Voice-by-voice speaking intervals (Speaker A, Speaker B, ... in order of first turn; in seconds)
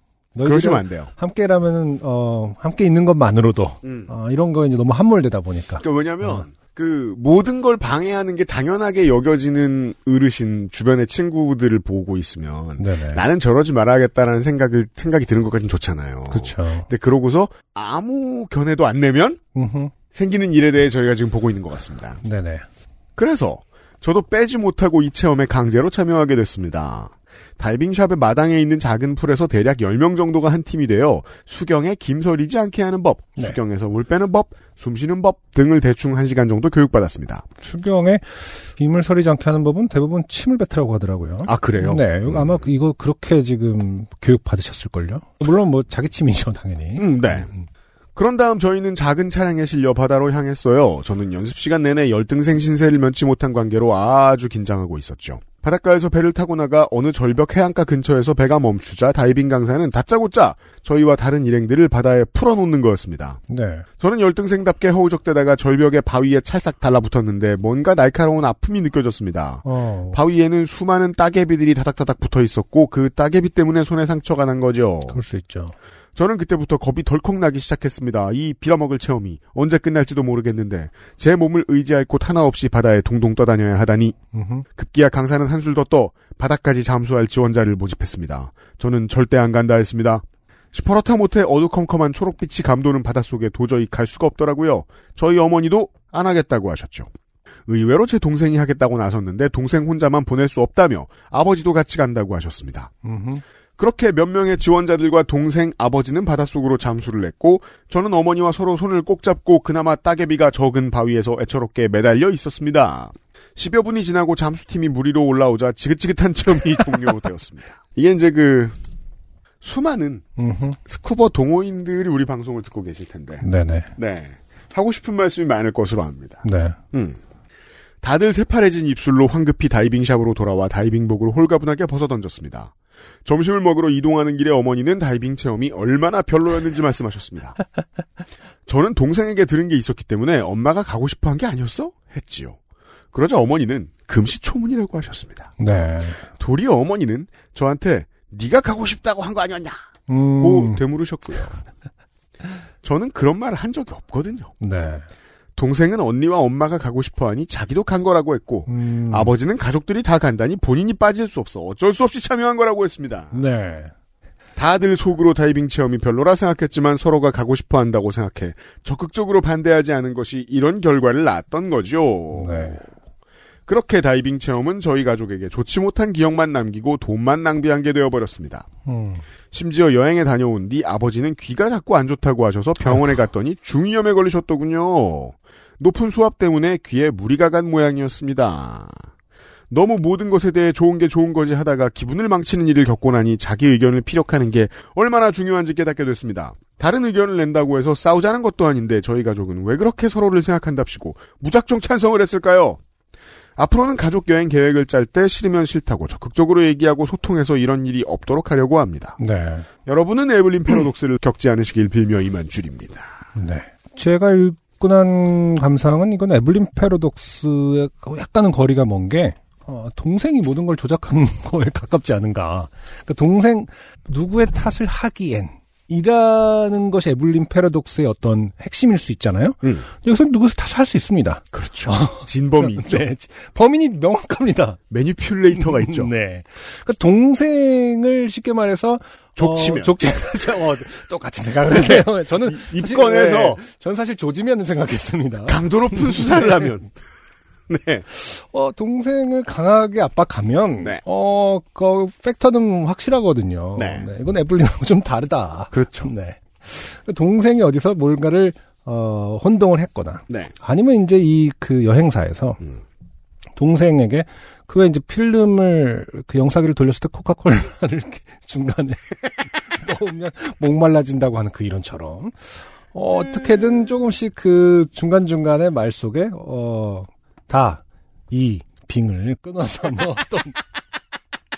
Speaker A: 0.3-6.5, 12.8-13.2, 16.3-16.9, 19.5-19.9, 22.2-22.6, 37.6-47.6, 63.5-63.9, 69.6-70.2, 75.1-75.7, 84.3-84.7, 103.0-103.4, 120.4-120.8, 123.4-123.9, 126.4-126.8, 145.6-146.2, 150.1-150.8, 154.6-155.1, 158.7-159.3, 163.3-163.9, 172.3-172.8, 178.8-179.2, 209.2-209.7, 213.3-234.8, 235.5-246.7, 248.1-262.6, 263.6-280.6
Speaker B: 0.4-1.1, 3.8-4.1, 5.8-19.4, 20.1-22.2, 23.1-37.4, 41.4-42.6, 47.0-47.5, 48.1-63.4, 64.0-75.2, 76.1-84.2, 84.8-97.1, 97.7-102.9, 103.8-118.8, 119.6-120.2, 120.8-127.2, 128.0-132.7, 133.2-137.6, 138.7-142.6, 143.1-145.5, 146.3-149.8, 150.4-151.7, 152.8-154.5, 155.6-163.4, 164.6-172.9, 173.7-178.7, 179.5-189.0, 189.7-202.8, 203.6-209.2, 209.8-213.2, 231.5-233.1, 234.9-236.1, 239.3-240.0, 241.7-243.6, 245.4-246.9, 247.7-248.1, 253.8-254.1, 255.7-256.1